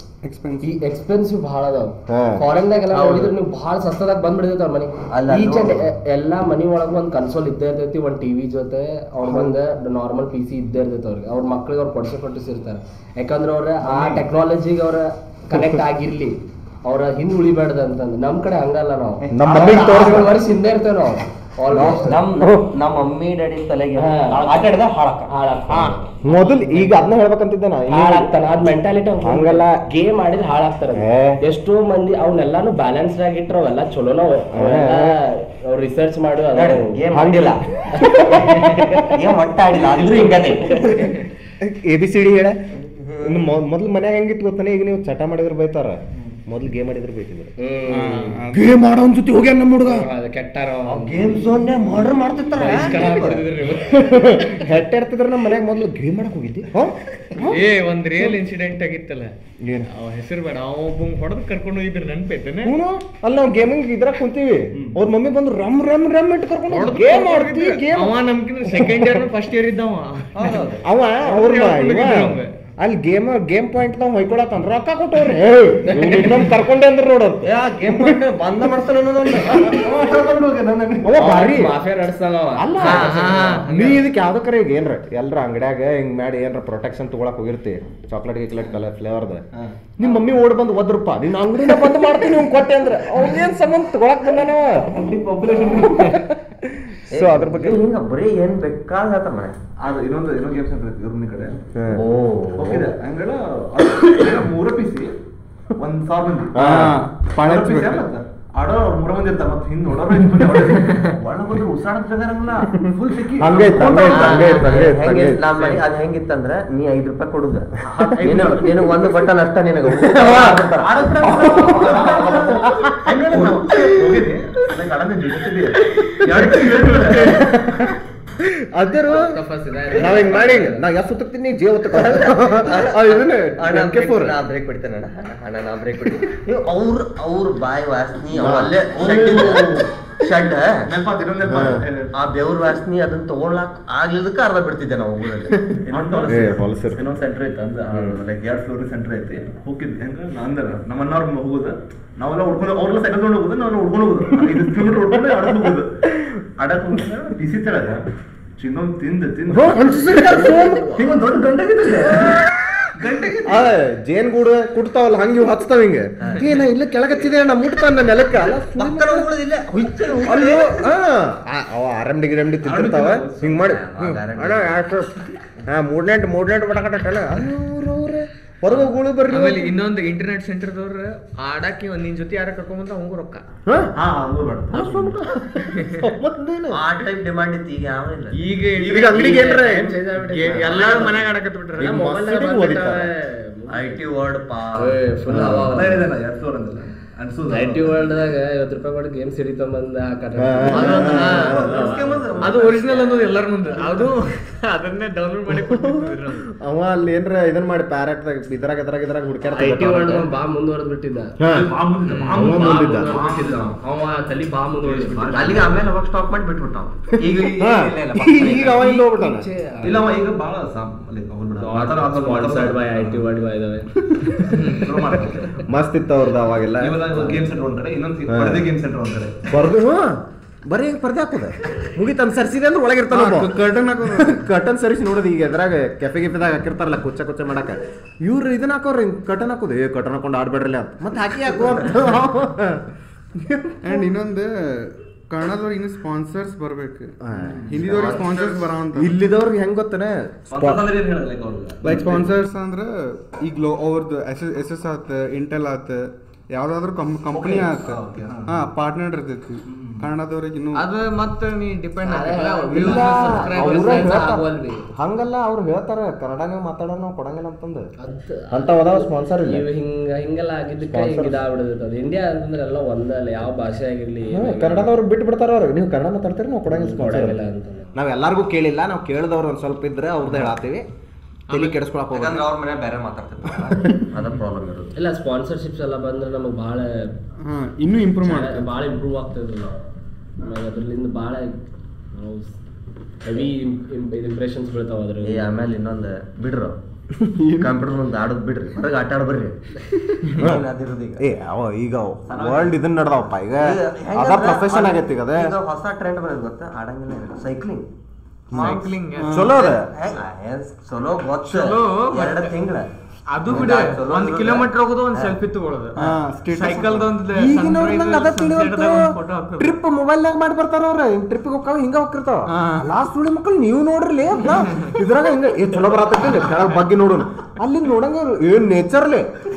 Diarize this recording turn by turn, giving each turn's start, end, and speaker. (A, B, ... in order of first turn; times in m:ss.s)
0:00.2-0:00.8 A
0:00.6-0:22.1 B
0:02.1-0:02.4 C
0:02.9-0:03.3 D
0:05.1-0:05.8 E
0:09.2-0:09.6 C
0:13.8-0:14.2 F
0:15.5-0:15.8 C
0:19.3-0:20.3 C
0:19.4-0:20.3 E
0:19.6-0:20.0 F
0:21.7-0:22.7 C
0:21.7-0:25.3 E
0:24.0-0:24.6 B
0:25.3-0:27.1 B
0:25.7-0:28.3 C
0:27.9-0:37.0 B
0:29.2-0:29.8 C
0:30.9-0:31.4 C
0:34.5-0:35.2 C
0:36.5-0:37.6 E
0:37.1-0:39.2 C
0:38.0-0:39.1 B
0:39.1-0:41.2 E
0:40.3-0:41.1 B
0:41.6-0:42.6 C
0:42.9-0:43.4 E
0:43.2-0:47.5 C
0:47.6-0:48.4 B
0:47.9-0:48.7 A
0:48.5-0:50.1 C
0:49.8-0:51.6 B
0:50.8-0:53.4 E
0:52.1-0:57.6 C
0:52.6-0:54.3 B
0:57.4-0:59.3 D
0:59.6-0:59.9 C
0:59.8-1:02.7 D
1:02.6-1:09.2 C
1:06.7-1:10.6 D
1:10.3-1:10.8 E
1:10.8-1:18.2 C
1:11.2-1:12.5 D
1:15.9-1:16.4 B
1:17.4-1:19.8 E
1:19.3-1:19.7 C
1:19.5-1:21.1 F
1:21.0-1:21.7 C
1:21.1-1:23.6 B
1:22.6-1:29.4 C
1:22.8-1:23.7 D
1:23.0-1:24.0 E
1:29.5-1:29.8 F
1:30.0-1:37.8 C
1:35.0-1:36.0 F
1:37.1-1:39.6 E
1:39.8-1:41.7 F
1:41.7-1:42.0 C
1:41.9-1:42.9 E
1:42.6-1:45.1 F
1:45.8-1:46.8 F
1:46.5-1:47.0 C
1:46.6-1:48.0 A
1:47.4-1:51.1 F
1:50.9-1:52.8 E
1:52.7-1:54.6 F
1:53.4-1:55.5 C
1:53.9-2:01.1 E
1:58.0-1:59.1 F
1:59.9-2:00.6 C
2:00.2-2:07.4 F
2:01.2-2:03.2 C
2:01.6-2:02.6 B
2:01.7-2:02.4 E
2:03.7-2:04.2 C
2:06.0-2:09.3 C
2:09.1-2:10.8 B
2:09.9-2:14.3 C
2:12.0-2:20.9 E
2:18.3-2:18.7 C
2:18.9-2:19.9 F
2:20.8-2:22.1 F
2:21.4-2:21.8 C
2:22.1-2:26.5 E
2:25.5-2:27.0 C
2:25.8-2:36.0 F
2:36.6-2:38.0 F
2:38.6-2:42.4 F
2:39.5-2:41.0 C
2:40.5-2:40.8 B
2:42.9-2:43.8 F
2:43.4-2:49.3 C
2:46.2-2:46.6 E
2:48.3-2:50.7 E
2:50.2-2:55.1 C
2:50.3-2:50.6 F
2:52.6-2:53.6 F
2:53.5-2:54.8 E
2:55.6-2:59.7 C
2:59.3-3:03.4 D
3:03.6-3:03.9 C
3:03.9-3:05.2 F
3:04.7-3:06.8 C
3:05.6-3:06.1 D
3:06.7-3:08.4 E
3:08.3-3:09.7 D
3:08.8-3:10.6 C
3:08.9-3:11.2 B
3:10.3-3:12.0 D
3:10.6-3:11.2 E
3:11.8-3:13.1 C
3:11.8-3:14.0 B
3:13.7-3:15.0 E
3:14.8-3:16.0 B
3:15.3-3:15.7 C
3:15.3-3:18.1 F
3:17.5-3:22.2 B
3:20.4-3:21.8 C
3:20.7-3:21.6 D
3:20.9-3:23.3 E
3:21.4-3:22.8 F
3:22.4-3:26.5 D
3:25.5-3:30.3 C
3:29.4-3:31.4 B
3:31.4-3:31.7 C
3:31.4-3:33.8 F
3:32.0-3:32.6 D
3:32.3-3:33.2 C
3:32.5-3:35.8 B
3:34.8-3:35.7 F
3:35.3-3:39.0 E
3:37.4-3:39.5 C
3:38.7-3:40.0 B
3:39.8-3:43.2 F
3:41.6-3:43.9 B
3:44.5-3:44.9 D
3:44.6-3:45.7 F
3:45.6-3:47.3 C
3:46.8-3:49.5 F
3:48.3-3:48.7 C
3:49.5-4:02.8 C
3:53.1-3:54.4 A
4:03.4-4:04.1 C
4:03.8-4:07.2 A
4:07.2-4:08.2 C
4:07.4-4:08.6 F
4:07.7-4:09.1 A
4:08.0-4:08.2 E
4:08.9-4:10.8 C
4:10.5-4:12.3 F
4:11.8-4:12.2 C
4:11.8-4:20.8 A
4:17.3-4:18.7 F
4:19.7-4:20.1 F
4:20.7-4:24.3 D
4:22.0-4:24.9 B
4:22.7-4:24.4 C
4:25.0-4:27.9 C
4:28.0-4:34.9 B
4:28.5-4:29.6 C
4:30.9-4:31.4 C
4:34.3-4:37.4 C
4:36.7-4:37.9 B
4:37.9-4:40.8 C
4:41.5-4:41.8 D
4:41.5-4:42.5 C
4:42.1-4:44.9 E
4:44.9-4:47.1 B
4:47.4-4:48.7 A
4:48.2-4:49.8 B
4:50.4-4:51.6 B
4:52.1-4:52.6 B
4:53.2-4:55.5 B
4:55.2-4:56.8 E
4:57.2-4:57.7 A
4:57.6-4:59.6 E
5:00.2-5:01.2 E
5:00.4-5:00.6 C
5:01.2-5:05.6 C
5:02.3-5:02.7 E
5:03.6-5:07.8 E
5:08.5-5:12.9 E
5:08.5-5:09.4 D
5:09.2-5:09.6 A
5:09.3-5:09.9 C
5:11.4-5:12.5 D
5:13.3-5:16.0 D
5:13.4-5:15.3 E
5:16.0-5:17.1 A
5:16.5-5:19.7 D
5:17.3-5:29.3 C
5:22.5-5:22.9 A